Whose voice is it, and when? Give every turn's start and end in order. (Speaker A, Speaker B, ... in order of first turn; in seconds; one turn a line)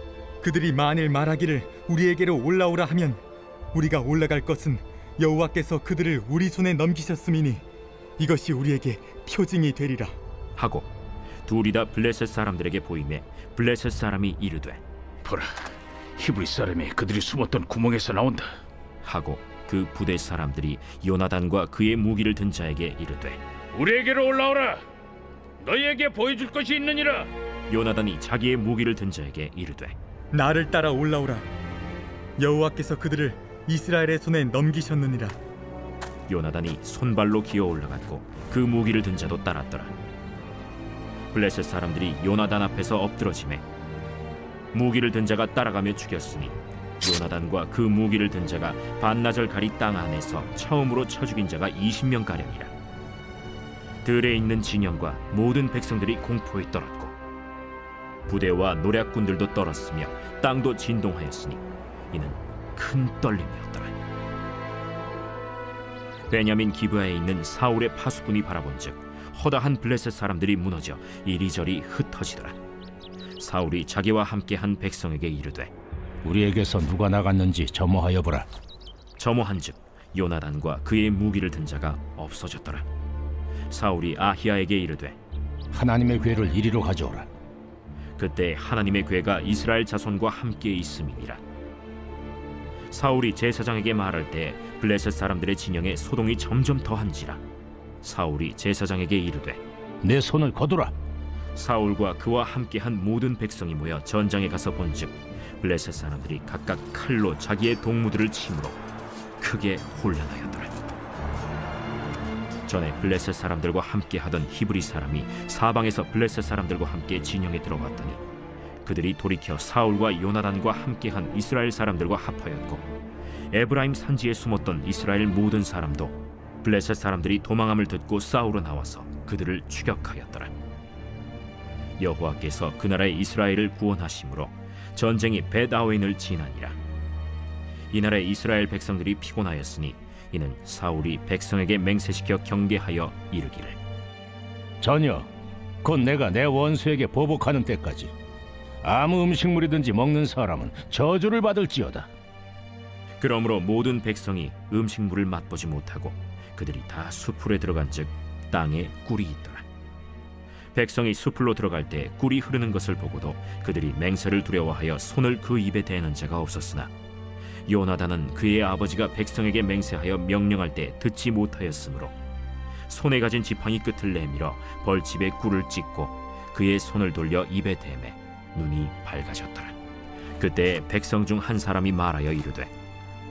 Speaker A: 0.4-3.2
Speaker A: 3.7-7.6
Speaker A: 8.2-10.1
Speaker B: 10.6-10.9
Speaker B: 11.5-14.8
Speaker C: 15.2-15.5
Speaker C: 16.2-18.5
Speaker B: 19.0-23.4
Speaker C: 23.8-24.8
Speaker C: 25.6-27.2
Speaker B: 27.7-29.9
Speaker A: 30.3-31.5
Speaker A: 32.4-35.4
Speaker B: 36.3-39.9
Speaker B: 41.3-43.6
Speaker B: 44.7-52.7
Speaker B: 54.0-57.2
Speaker B: 58.3-63.9
Speaker B: 66.3-72.6
Speaker B: 73.4-75.7
Speaker D: 76.2-78.5
Speaker B: 79.2-82.9
Speaker B: 83.7-85.2
Speaker D: 85.7-87.3
Speaker B: 88.2-91.4
Speaker B: 92.9-97.4
Speaker B: 98.0-99.6
Speaker D: 100.0-100.9
Speaker B: 101.5-108.8
Speaker B: 109.4-110.9
Speaker B: 112.7-118.2
Speaker B: 118.8-122.8
Speaker B: 123.5-130.5
Speaker B: 132.0-136.8
Speaker B: 137.9-143.8
Speaker D: 144.8-145.3
Speaker D: 145.8-148.1
Speaker D: 148.8-152.1
Speaker B: 153.2-159.6
Speaker B: 160.8-166.9
Speaker B: 167.7-172.1
Speaker B: 172.9-179.8
Speaker B: 180.4-182.7